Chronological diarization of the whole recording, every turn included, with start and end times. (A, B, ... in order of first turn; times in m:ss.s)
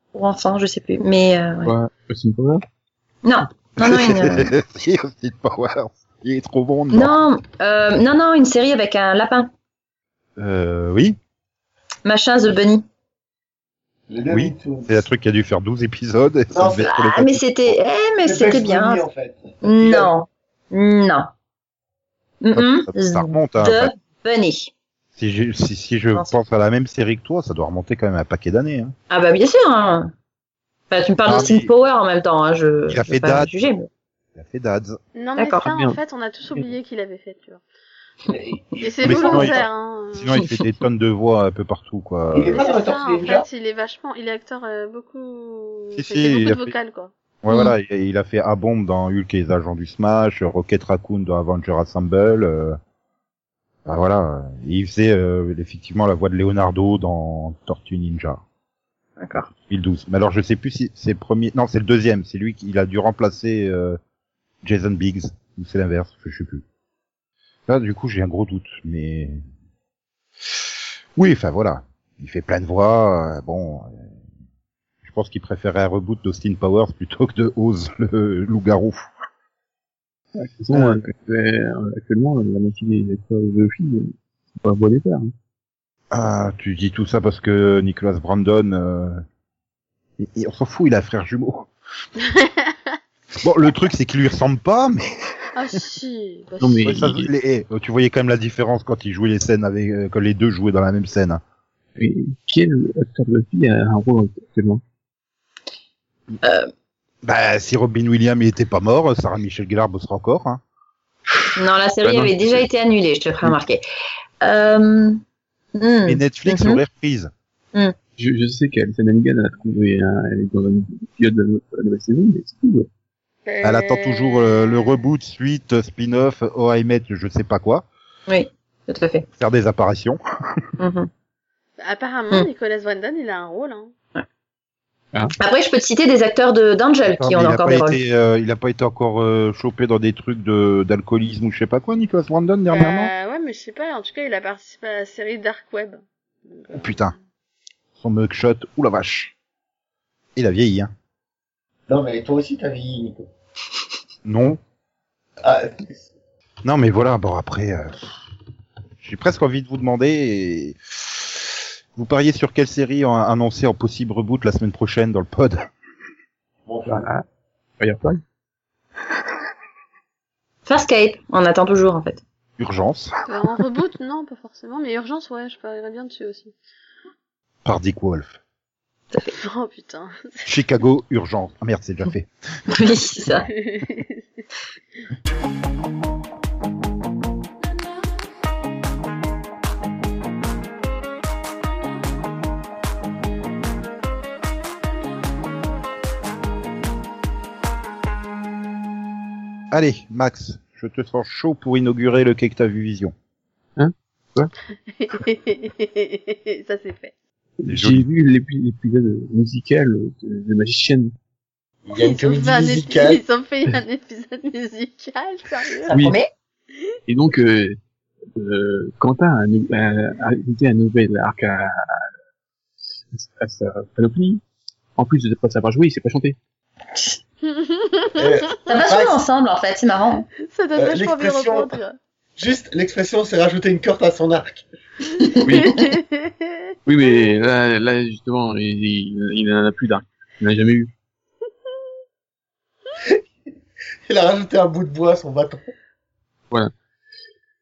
0:00.1-0:01.8 A
0:01.6-0:02.6 B
0:03.2-0:04.5 A
0:03.8-0:07.2 C
0:06.9-0:09.5 A
0:10.4-0:11.2 C
0:12.1-0:12.8 A
0:14.1-0:15.0 D
0:14.3-0:17.8 C
0:16.5-0:16.9 D
0:16.8-0:19.0 A
0:18.2-0:20.1 D
0:19.6-0:21.3 A
0:22.4-0:24.7 A
0:22.5-0:23.9 C
0:25.2-0:29.0 C
0:29.1-0:30.1 A
0:30.9-0:33.9 A
0:31.2-0:31.7 C
0:32.9-0:33.5 C
0:34.4-0:35.0 C
0:35.2-0:37.6 E
0:35.4-0:35.7 A
0:35.7-0:36.0 B
0:38.3-0:39.7 D
0:38.8-0:40.4 E
0:39.0-0:42.6 C
0:42.3-0:43.5 D
0:42.6-0:47.1 E
0:46.0-0:46.7 C
0:47.4-0:52.8 C
0:47.5-0:47.7 A
0:53.9-0:58.4 C
0:59.2-0:59.5 A
0:59.7-1:04.0 C
1:04.6-1:06.6 C
1:07.7-1:09.4 C
1:11.2-1:14.1 C
1:15.0-1:19.1 C
1:20.4-1:25.3 B
1:20.7-1:21.1 C
1:26.1-1:29.2 C
1:30.2-1:31.7 C
1:32.2-1:33.0 E
1:33.4-1:35.2 C
1:35.6-1:37.1 E
1:36.6-1:37.3 B
1:36.8-1:41.4 C
1:42.0-1:44.8 B
1:46.4-1:46.7 A
1:47.2-1:50.6 C
1:51.6-1:53.8 A
1:52.0-1:52.7 B
1:54.4-1:55.2 A
1:55.8-1:56.8 A
1:56.1-1:57.3 C
1:58.2-2:02.9 B
2:03.5-2:05.0 E
2:03.6-2:07.9 C
2:08.3-2:09.3 A
2:09.4-2:10.7 C
2:10.8-2:11.1 A
2:11.8-2:13.9 E
2:15.4-2:18.0 A
2:17.1-2:23.1 C
2:22.7-2:27.2 E
2:26.7-2:27.1 C
2:28.0-2:29.3 C
2:30.4-2:30.9 C
2:31.9-2:33.3 D
2:34.2-2:34.6 C
2:35.4-2:36.0 D
2:36.6-2:38.0 C
2:39.0-2:41.4 C
2:42.0-2:45.7 C
2:46.7-2:47.1 D
2:46.9-2:47.2 B
2:47.8-2:48.2 B
2:50.7-2:52.2 A
2:52.6-2:53.1 C
2:53.3-2:56.5 E
2:57.6-2:58.4 C
2:59.4-3:00.5 E
3:00.4-3:02.3 C
3:02.7-3:03.5 A
3:03.5-3:04.4 E
3:19.7-3:23.1 C
3:23.8-3:24.5 B
3:24.9-3:27.1 E
3:27.6-3:31.1 B
3:27.7-3:28.1 C
3:31.9-3:33.2 D
3:32.0-3:36.0 E
3:35.9-3:36.3 A
3:35.9-3:36.2 B
3:37.1-3:37.8 B
3:38.4-3:42.1 B
3:43.1-3:44.4 B
3:45.0-3:46.4 B
3:47.4-3:48.5 E
3:48.2-3:49.2 D
3:48.7-3:50.3 A
3:50.4-3:52.0 E
3:50.8-3:51.8 D
3:52.4-3:54.7 D
3:55.2-3:55.9 A
3:55.4-3:55.7 B
3:55.5-3:56.6 E
3:56.9-4:00.9 B
4:04.1-4:05.7 D